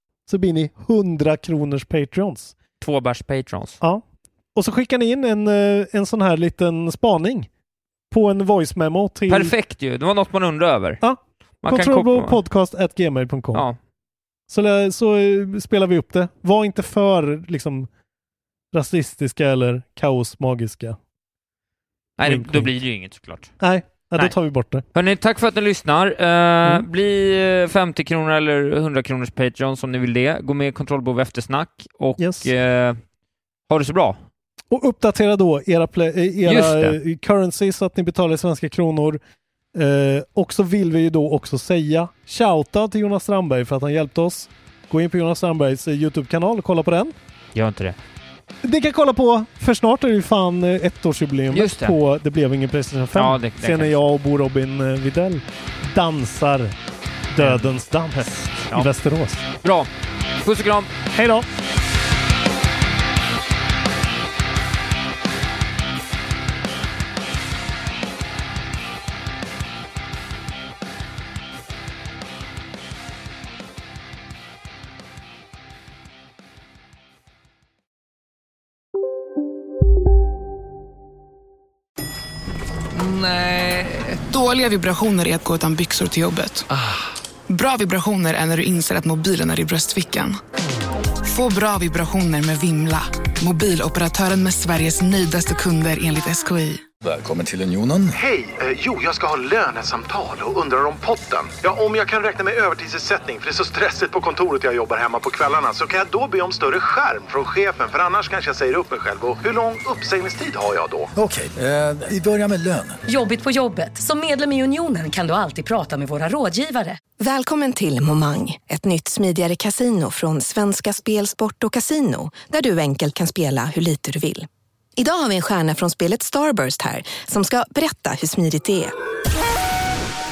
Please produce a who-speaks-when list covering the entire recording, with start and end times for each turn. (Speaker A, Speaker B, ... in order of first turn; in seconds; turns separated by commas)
Speaker A: 0.3-2.5, Speaker B: 2.8-3.8, Speaker A: 4.5-7.5, Speaker A: 8.1-9.5, Speaker B: 9.3-11.0, Speaker A: 11.0-13.6, Speaker B: 11.6-12.3, Speaker A: 14.5-17.9, Speaker A: 18.7-21.0, Speaker B: 22.2-23.5, Speaker A: 22.2-22.7, Speaker A: 23.6-24.8, Speaker B: 24.9-33.0, Speaker A: 32.2-32.5, Speaker B: 33.7-34.2, Speaker A: 34.7-39.2, Speaker B: 36.5-37.0, Speaker A: 39.7-47.1, Speaker B: 47.5-48.0, Speaker A: 48.6-56.7, Speaker B: 51.5-52.0, Speaker B: 53.1-53.9, Speaker A: 57.3-59.5, Speaker B: 57.4-58.9, Speaker B: 59.6-59.9, Speaker B: 60.4-60.9, Speaker A: 61.1-61.5, Speaker B: 82.9-84.2, Speaker C: 84.2-86.7, Speaker C: 87.5-90.4, Speaker C: 91.2-96.8, Speaker D: 97.0-98.2, Speaker E: 99.0-100.5, Speaker E: 104.8-105.2, Speaker E: 106.0-110.7, Speaker D: 111.2-113.0, Speaker F: 113.0-117.0, Speaker G: 117.2-128.9